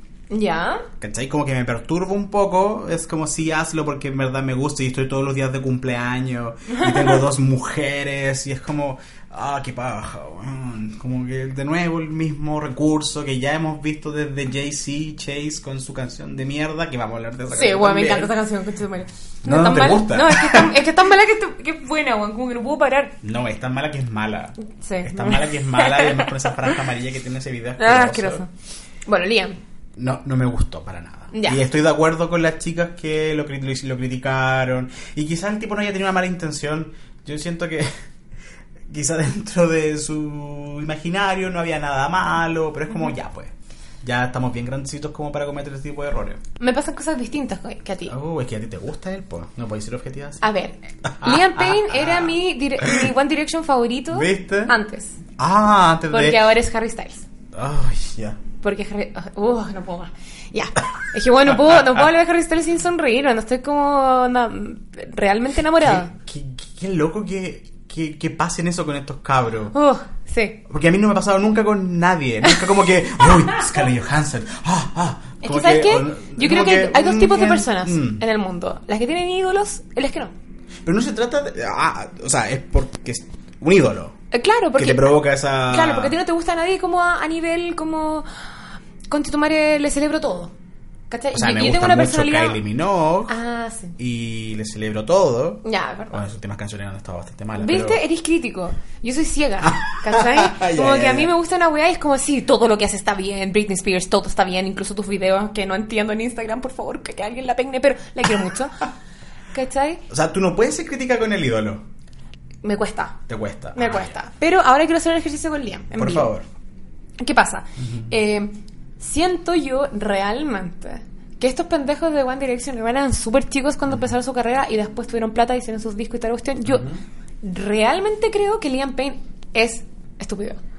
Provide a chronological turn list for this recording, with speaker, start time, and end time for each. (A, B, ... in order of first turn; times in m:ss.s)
0:00.3-0:00.9 A
0:01.0-0:18.3 B
0:06.7-0:07.2 A
0:17.5-0:23.2 A
0:19.4-0:20.7 B
0:23.2-0:28.4 B
0:24.6-0:26.5 A
0:27.8-0:28.5 A
0:29.0-0:29.6 A
0:30.0-0:37.9 B
0:31.3-0:31.6 A
0:38.9-0:46.4 B
0:46.6-0:48.1 A
0:48.1-0:50.4 B
0:50.4-0:55.2 A
0:51.0-0:53.1 B
0:54.1-0:54.8 B
0:55.4-0:56.5 B
0:56.1-0:57.2 A
0:57.5-0:58.4 B
0:58.6-1:06.1 A
1:05.8-1:09.7 B
1:09.7-1:10.6 A
1:10.7-1:18.2 B
1:15.4-1:20.3 A
1:20.8-1:24.2 B
1:24.3-1:28.3 A
1:24.8-1:26.2 B
1:29.1-1:30.5 A
1:31.1-1:32.6 A
1:31.3-1:33.3 B
1:33.3-1:34.0 A
1:34.0-1:38.0 B
1:35.6-1:36.2 A
1:37.6-1:48.9 A
1:39.6-1:41.3 B
1:49.5-1:50.0 A
1:50.1-1:51.8 B
1:52.6-1:53.2 A
1:53.3-1:54.2 B
1:53.7-1:56.3 A
1:55.9-1:56.4 B
1:57.2-2:06.9 A
1:57.8-1:58.1 B
2:06.6-2:07.0 B
2:07.4-2:10.6 A